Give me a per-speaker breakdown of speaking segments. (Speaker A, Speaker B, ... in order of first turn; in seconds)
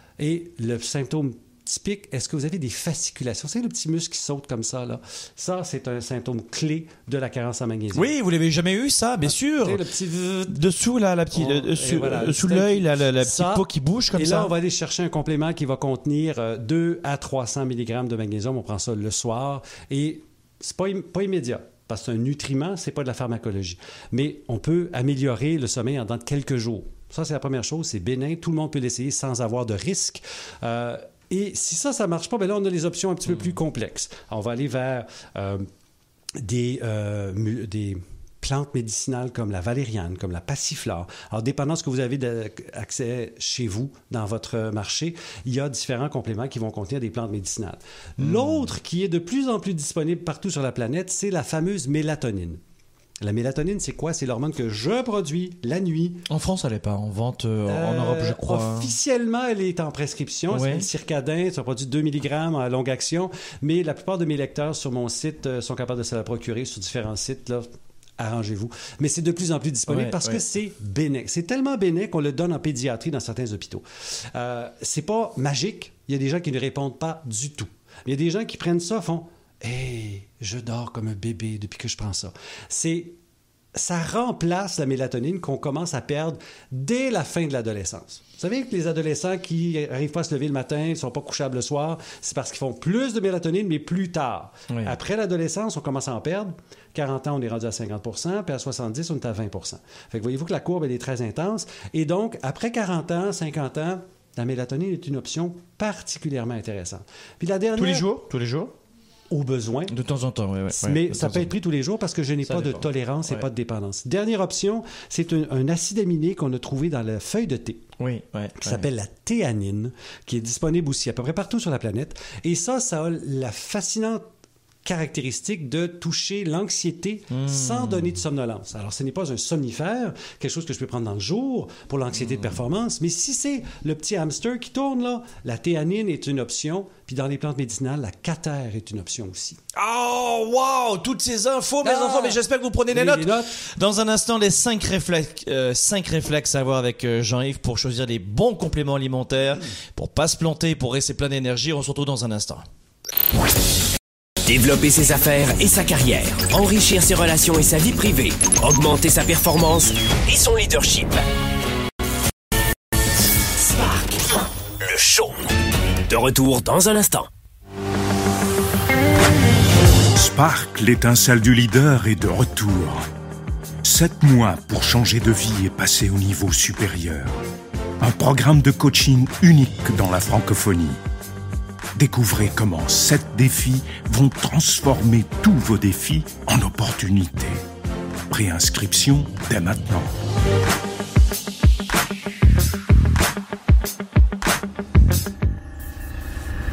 Speaker A: 0.2-8.1, 9.2-10.6, 11.3-35.7, 36.4-52.6, 53.2-56.3, 57.7-67.7, 68.2-83.2, 83.8-108.1, 109.3-109.9, 110.7-117.8, 118.6-124.3, 124.8-139.6, 141.8-143.6
Speaker B: 7.9-9.8, 10.5-14.5, 48.2-48.7, 56.3-58.9, 60.5-60.9, 69.9-70.4, 94.7-95.0, 107.8-108.7, 109.9-111.5, 112.4-113.5, 118.0-118.9, 127.3-128.2, 139.7-152.7
Speaker C: 154.5-161.2, 163.6-165.5, 166.1-167.3
Speaker D: 170.2-173.1, 173.8-177.4, 178.0-181.0, 182.0-187.6, 188.3-190.1